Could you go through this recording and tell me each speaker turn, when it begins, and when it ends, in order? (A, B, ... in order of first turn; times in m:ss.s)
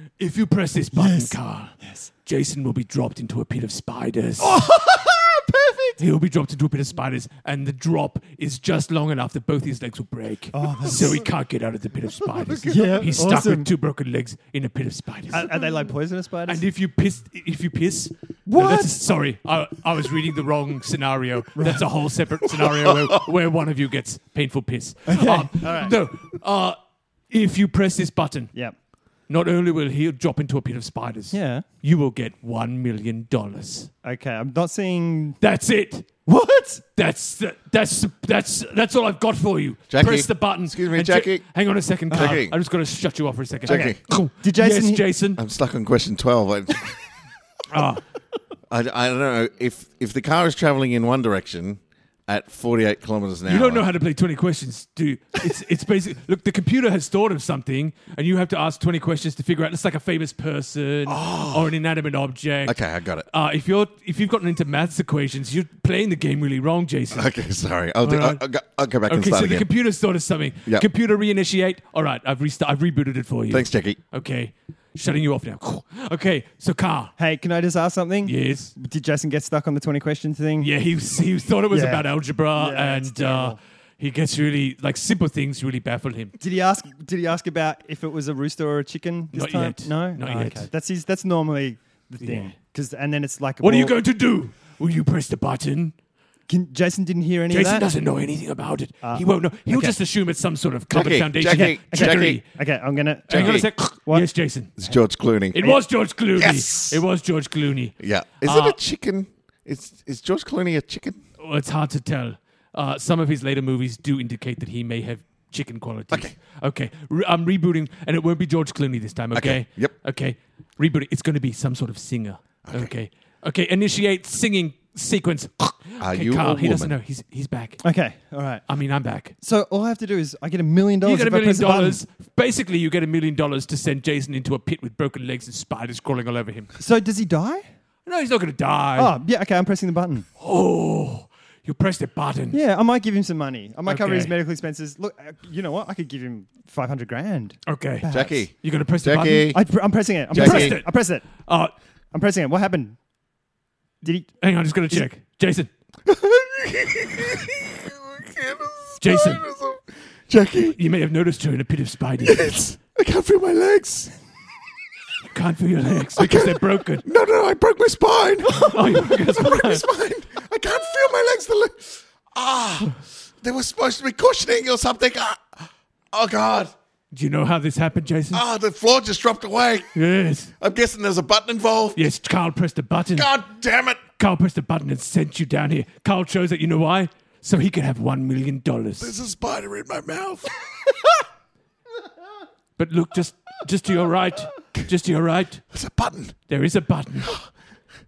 0:00.2-0:04.6 A
0:00.9-0:02.1 B
0:04.4-0:06.0 B
0:06.0-0:15.7 A
0:10.5-0:11.3 B
0:12.6-0:13.7 B
0:15.3-0:16.6 B
0:16.5-0:26.8 A
0:18.4-0:19.0 B
0:21.6-0:21.8 B
0:22.6-0:23.2 C
0:25.1-0:26.0 B
0:27.3-0:28.5 A
0:29.3-0:33.9 A
0:31.3-0:31.6 B
0:34.0-0:35.4 B
0:35.4-0:36.1 A
0:36.2-0:36.8 B
0:37.0-0:45.4 A
0:39.9-0:41.4 C
0:42.1-0:42.4 B
0:42.1-0:42.6 C
0:43.6-0:44.0 C
0:43.7-0:45.0 B
0:45.4-0:47.0 C
0:47.7-0:48.0 A
0:48.7-0:53.9 C
0:53.4-1:07.3 A
1:01.1-1:01.7 C
1:02.6-1:03.3 C
1:07.1-1:09.7 C
1:08.0-1:08.4 A
1:09.1-1:17.1 A
1:13.5-1:14.0 C
1:17.2-1:20.7 B
1:18.2-1:18.7 A
1:20.6-1:26.3 A
1:21.7-1:23.6 B
1:26.4-1:33.9 B
1:29.3-1:30.7 A
1:32.2-1:32.5 A
1:33.6-1:35.9 A
1:36.5-1:37.9 B
1:37.5-1:42.5 A
1:39.0-1:40.0 B
1:40.9-1:42.4 C
1:41.5-1:45.0 B
1:43.3-1:44.7 A
1:43.3-1:43.7 C
1:44.8-1:45.8 C
1:45.5-1:48.8 A
1:46.4-1:47.0 C
1:48.0-1:51.2 C
1:51.4-2:07.8 A
1:59.3-1:59.9 C
2:02.6-2:02.9 C
2:06.0-2:06.9 C
2:07.8-2:08.6 B
2:08.7-2:09.3 A
2:09.4-2:12.0 B
2:11.0-2:16.7 A
2:16.8-2:17.6 B
2:18.0-2:19.1 A
2:19.0-2:20.3 B
2:20.4-2:22.6 A
2:22.5-2:28.4 B
2:23.9-2:24.3 A
2:27.7-2:29.5 A
2:28.1-2:29.6 C
2:29.5-2:31.4 B
2:30.3-2:30.8 C
2:30.4-2:31.7 A
2:32.1-2:33.0 B
2:34.0-2:34.4 B
2:34.4-2:35.7 A
2:36.0-2:40.8 C
2:39.0-2:39.4 A
2:40.7-2:42.6 A
2:42.2-2:44.1 C
2:45.3-2:47.0 A
2:46.2-2:56.7 C
2:48.5-2:49.8 A
2:57.1-2:58.4 A
2:58.3-2:59.9 C
2:59.9-3:00.5 A
3:00.6-3:02.0 C
3:02.0-3:03.3 A
3:03.1-3:04.0 C
3:04.2-3:09.1 A
3:09.0-3:10.5 C
3:12.8-3:15.6 A
3:15.7-3:16.4 C
3:16.5-3:17.4 A